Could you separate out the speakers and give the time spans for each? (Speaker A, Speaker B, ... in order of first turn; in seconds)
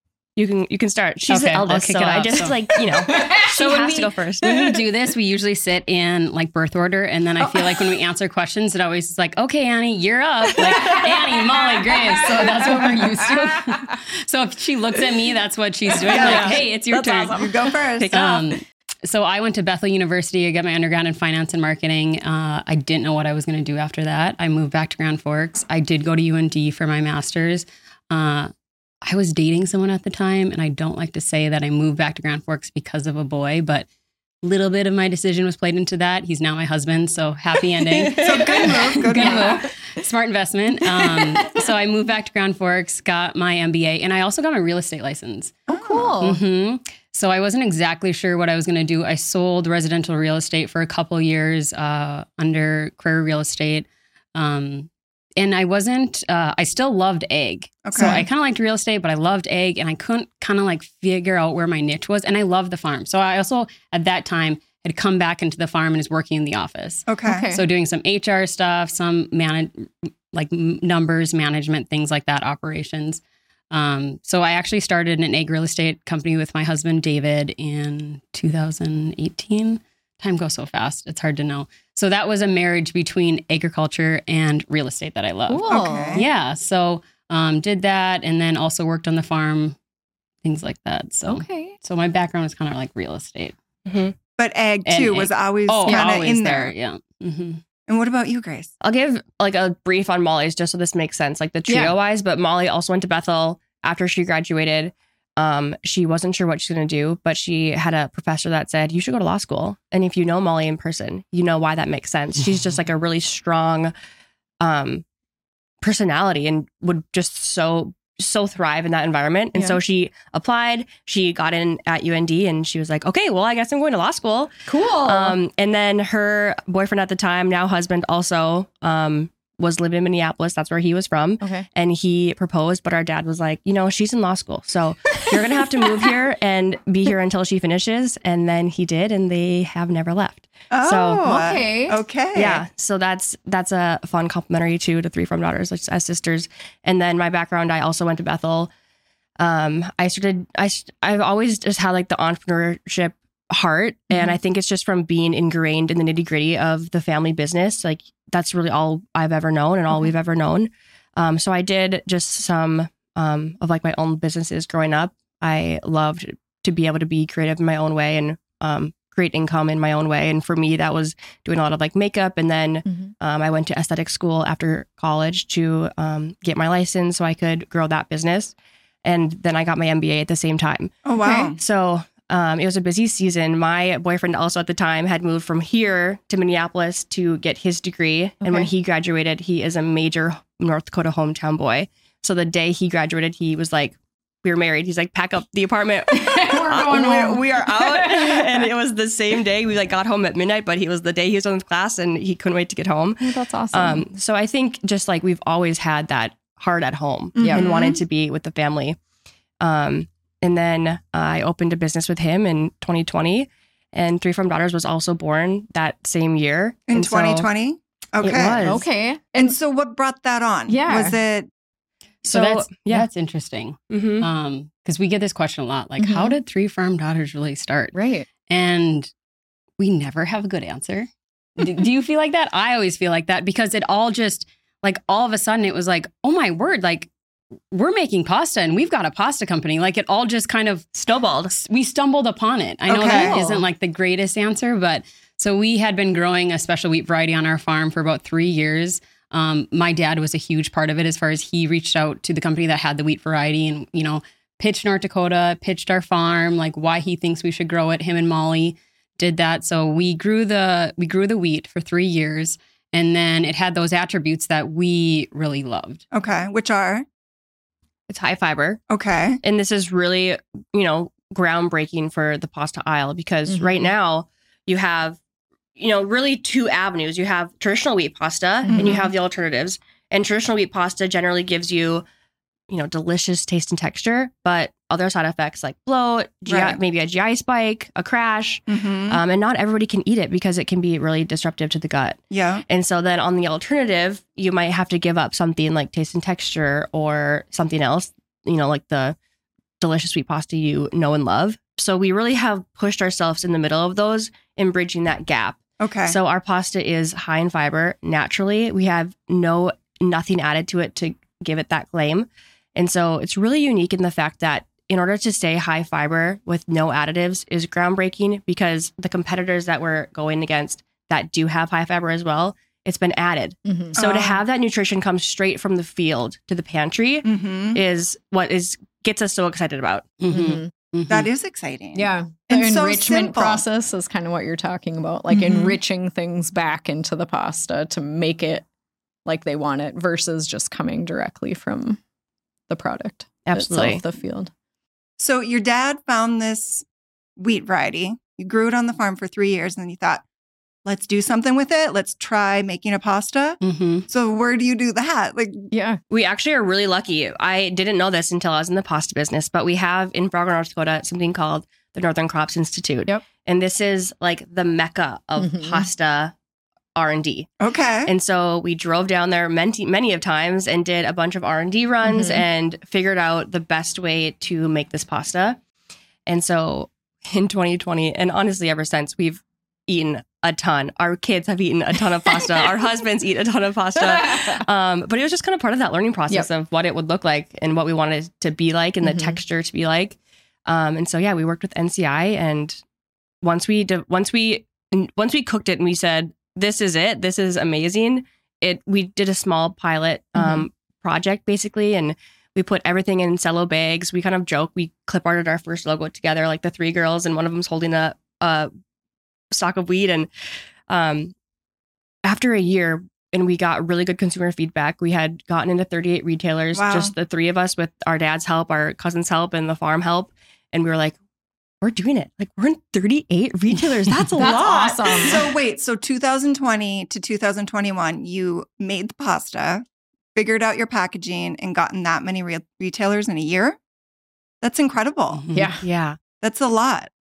Speaker A: 0.3-4.6, 16.1-16.6, 18.0-18.5, 93.8-94.1, 98.8-113.9, 114.6-115.0, 115.8-141.4, 142.3-148.7, 149.4-209.0, 209.6-217.5, 218.2-218.8, 222.2-223.1, 223.9-224.3, 240.9-241.5, 268.1-268.8, 269.4-275.2, 275.8-282.0, 282.7-299.1, 299.8-330.1, 343.4-344.0, 356.1-366.3, 366.9-367.5, 368.1-375.6, 376.3-392.8, 393.4-408.7, 409.5-410.3, 410.9-411.3, 412.2-421.2, 421.8-425.4, 435.8-436.2
Speaker B: 1.3-2.6, 3.4-28.5, 29.0-33.9, 34.4-45.6, 46.2-89.8, 90.4-93.5, 94.8-97.6, 222.3-227.9, 228.5-229.1, 229.8-237.1, 237.7-240.9, 241.5-266.0, 330.2-331.3, 353.6-354.0, 435.3-435.7
Speaker C: 3.0-3.5, 7.4-8.0, 10.6-13.9, 39.1-39.6, 41.0-41.6, 45.7-46.4, 58.0-58.2, 67.2-67.6, 85.5-86.2, 91.3-91.8, 101.7-101.9, 124.7-125.4, 131.4-131.7, 141.2-142.0, 154.1-154.3, 181.2-181.5, 188.4-188.7, 196.1-198.7, 203.2-204.0, 207.4-207.7, 218.6-219.5, 220.7-221.2, 226.0-226.3, 227.9-228.3, 243.0-243.7, 273.5-273.9, 278.7-279.0, 323.6-323.9, 330.3-330.7, 331.9-338.6, 339.2-342.0, 342.7-344.5, 355.7-356.0, 365.4-365.9, 372.0-372.4, 384.0-384.6, 389.0-389.4, 400.4-400.6, 424.4-425.5, 435.5-435.8
Speaker D: 16.0-18.2, 38.1-39.6, 45.7-46.1, 57.8-58.2, 67.1-67.5, 85.7-86.2, 94.4-96.7, 97.9-98.7, 140.7-142.6, 181.0-181.6, 207.4-208.0, 216.9-218.6, 219.3-221.5, 242.9-243.3, 266.1-267.0, 268.9-269.4, 278.7-279.1, 286.5-286.8, 288.7-289.2, 292.3-292.6, 305.8-306.2, 323.9-324.4, 327.2-327.8, 331.1-333.6, 335.3-335.8, 345.2-346.9, 347.4-350.2, 350.8-355.7, 367.6-368.1, 416.7-417.1, 424.4-433.8, 434.6-435.4, 436.4-437.1